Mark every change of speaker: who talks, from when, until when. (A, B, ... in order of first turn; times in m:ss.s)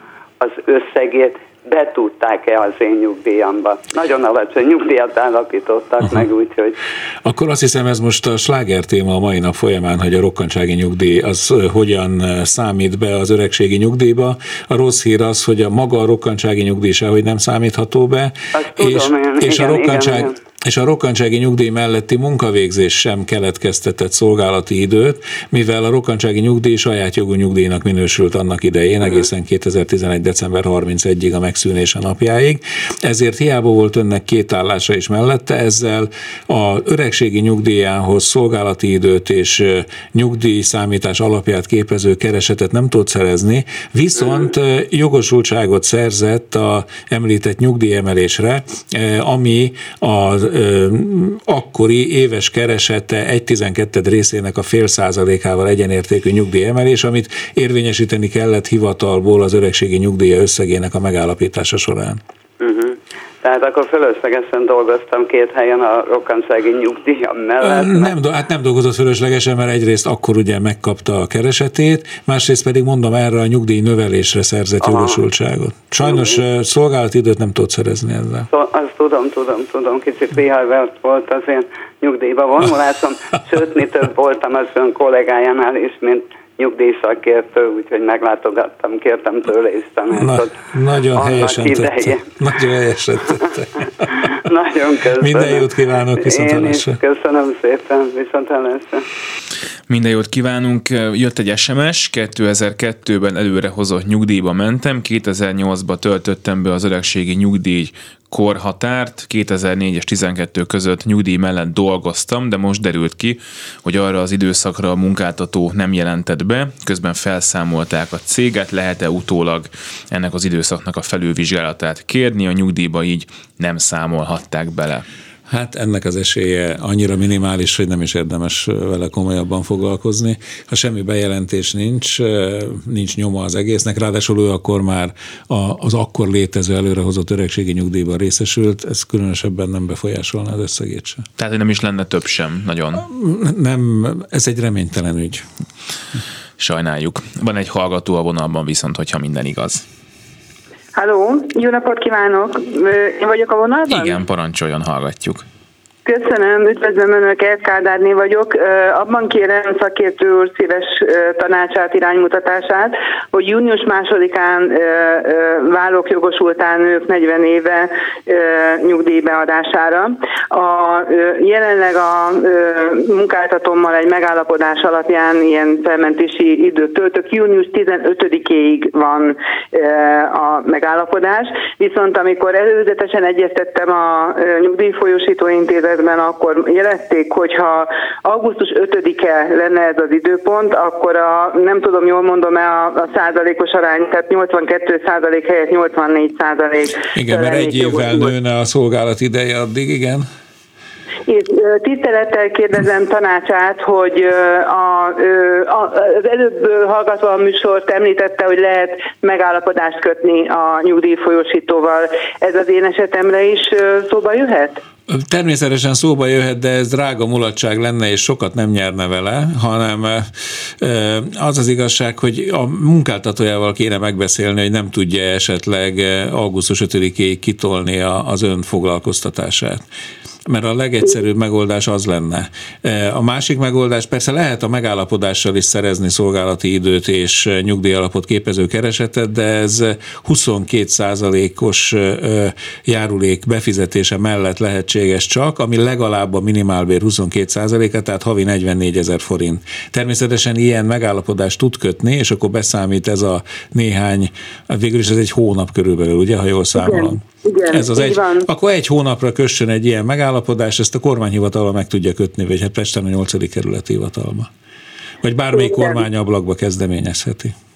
0:00.4-0:06.8 A
0:07.2-1:02.2 B
0:18.5-0:20.4 A
1:02.6-1:08.2 A
1:07.6-1:18.5 B
1:14.8-1:15.2 A
1:16.0-1:16.4 A
1:18.5-1:30.6 A
1:30.2-1:34.3 B
1:31.1-1:32.2 A
1:34.1-1:39.0 A
1:35.2-1:37.0 B
1:39.9-2:05.0 C
2:05.5-2:21.3 B
2:21.4-2:23.0 C
2:22.9-2:25.4 B
2:26.6-2:29.8 C
2:30.9-2:34.2 D
2:33.9-2:35.4 C
2:36.0-3:18.3 D
3:17.1-3:20.2 B
3:21.3-3:34.8 D
3:35.1-3:49.8 B
3:50.4-4:24.5 B
4:16.7-4:18.4 D
4:25.2-4:27.5 B
4:25.5-4:26.0 D